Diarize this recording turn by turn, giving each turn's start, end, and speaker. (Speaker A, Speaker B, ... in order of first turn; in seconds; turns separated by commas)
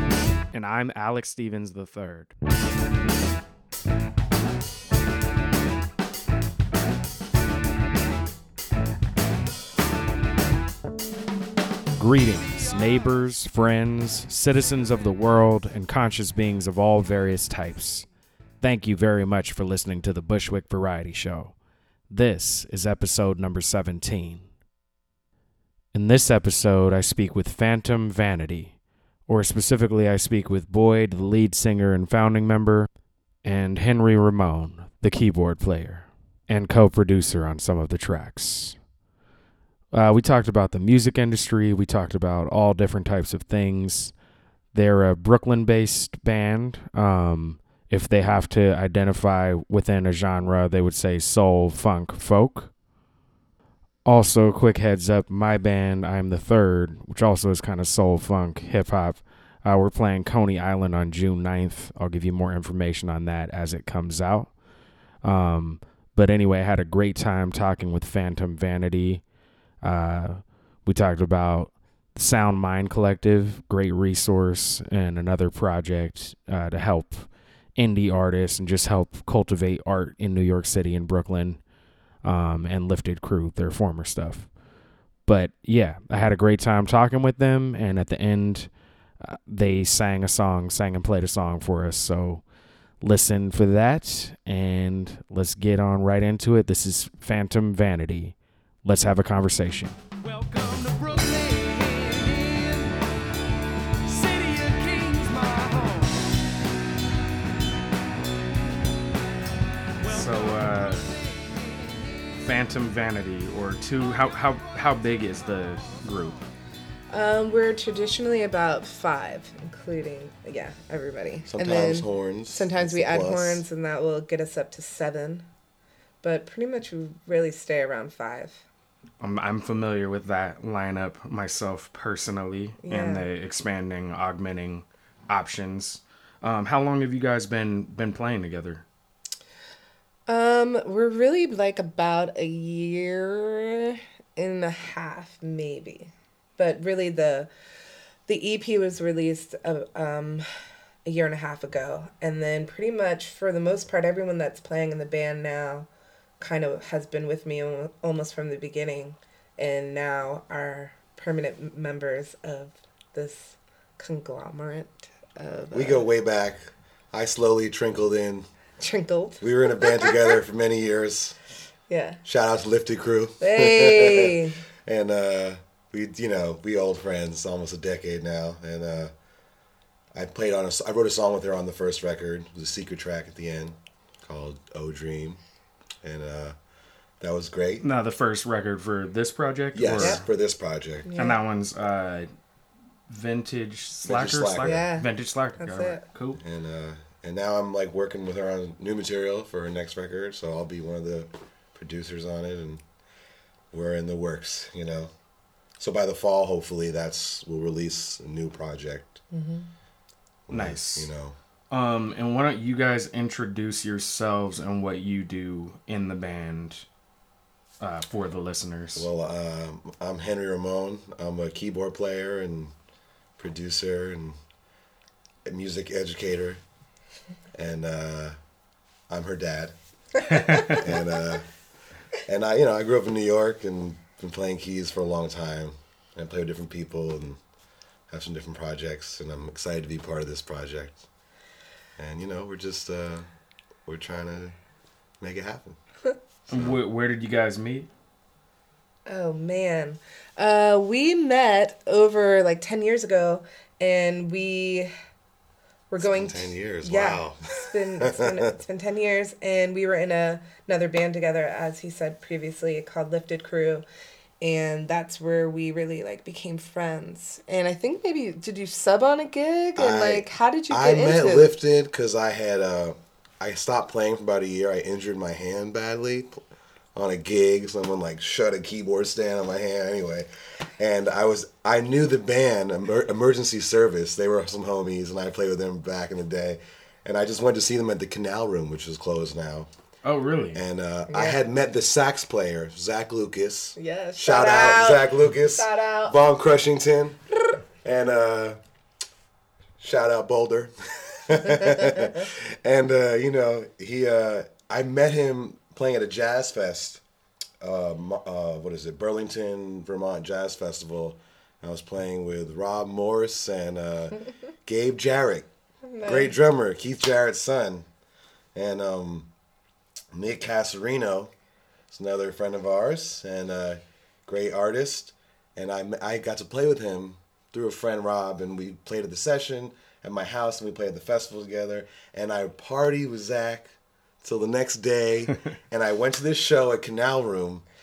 Speaker A: 0.5-2.3, Speaker A: 12.0-18.1, Speaker B: 12.6-13.1, Speaker A: 18.6-21.6, Speaker A: 22.1-24.5, Speaker A: 25.9-32.9, Speaker A: 33.4-38.8, Speaker A: 39.9-44.1, Speaker A: 44.7-52.7, Speaker A: 54.0-64.5, Speaker A: 65.2-69.3, Speaker A: 69.8-81.6, Speaker A: 82.2-84.5, Speaker A: 85.3-92.5, Speaker A: 93.0-100.0, Speaker B: 100.2-103.0, Speaker B: 104.1-106.4, Speaker B: 110.0-112.5, Speaker A: 110.1-111.1, Speaker A: 112.4-116.4, Speaker B: 114.0-116.5, Speaker C: 117.1-125.5, Speaker D: 121.5-123.7, Speaker C: 126.2-128.6, Speaker A: 129.2-138.9, Speaker C: 132.8-133.2, Speaker C: 140.3-147.5, Speaker C: 148.3-150.5, Speaker C: 151.1-155.9, Speaker C: 156.4-166.1, Speaker D: 165.7-168.5, Speaker C: 168.8-170.4, Speaker D: 169.4-171.4, Speaker C: 171.9-172.2, Speaker D: 172.2-179.1, Speaker C: 173.4-174.6, Speaker D: 180.1-185.4, Speaker D: 186.0-186.6, Speaker D: 187.2-187.8, Speaker A: 187.8-190.2, Speaker D: 189.8-191.1, Speaker C: 191.1-191.4, Speaker A: 191.2-192.3, Speaker A: 193.1-196.4, Speaker D: 194.0-194.9, Speaker C: 194.6-196.0, Speaker D: 196.4-202.8, Speaker D: 203.7-205.1, Speaker D: 205.8-209.2, Speaker C: 209.3-209.7, Speaker D: 210.5-211.4, Speaker A: 210.5-211.1, Speaker A: 211.7-216.9, Speaker A: 217.8-219.1, Speaker D: 219.0-222.7, Speaker D: 223.4-224.4, Speaker D: 225.5-226.6, Speaker D: 227.5-228.4, Speaker D: 229.1-229.7, Speaker C: 230.5-230.8, Speaker D: 230.6-231.5, Speaker D: 232.3-237.4, Speaker D: 238.1-241.0, Speaker D: 242.0-243.3, Speaker D: 243.9-244.6, Speaker D: 245.2-245.8, Speaker A: 246.5-247.9, Speaker C: 249.1-254.9, Speaker C: 255.9-263.9, Speaker D: 256.0-258.5, Speaker C: 264.4-271.5, Speaker D: 269.8-276.4, Speaker D: 277.0-280.3, Speaker D: 280.8-289.7, Speaker A: 290.0-290.6, Speaker D: 290.5-298.6, Speaker C: 291.1-291.4, Speaker C: 293.8-296.2, Speaker D: 299.8-307.0, Speaker D: 307.6-315.5, Speaker C: 315.9-316.3, Speaker D: 316.0-317.9, Speaker D: 318.6-319.3, Speaker D: 320.1-321.3, Speaker D: 321.9-337.6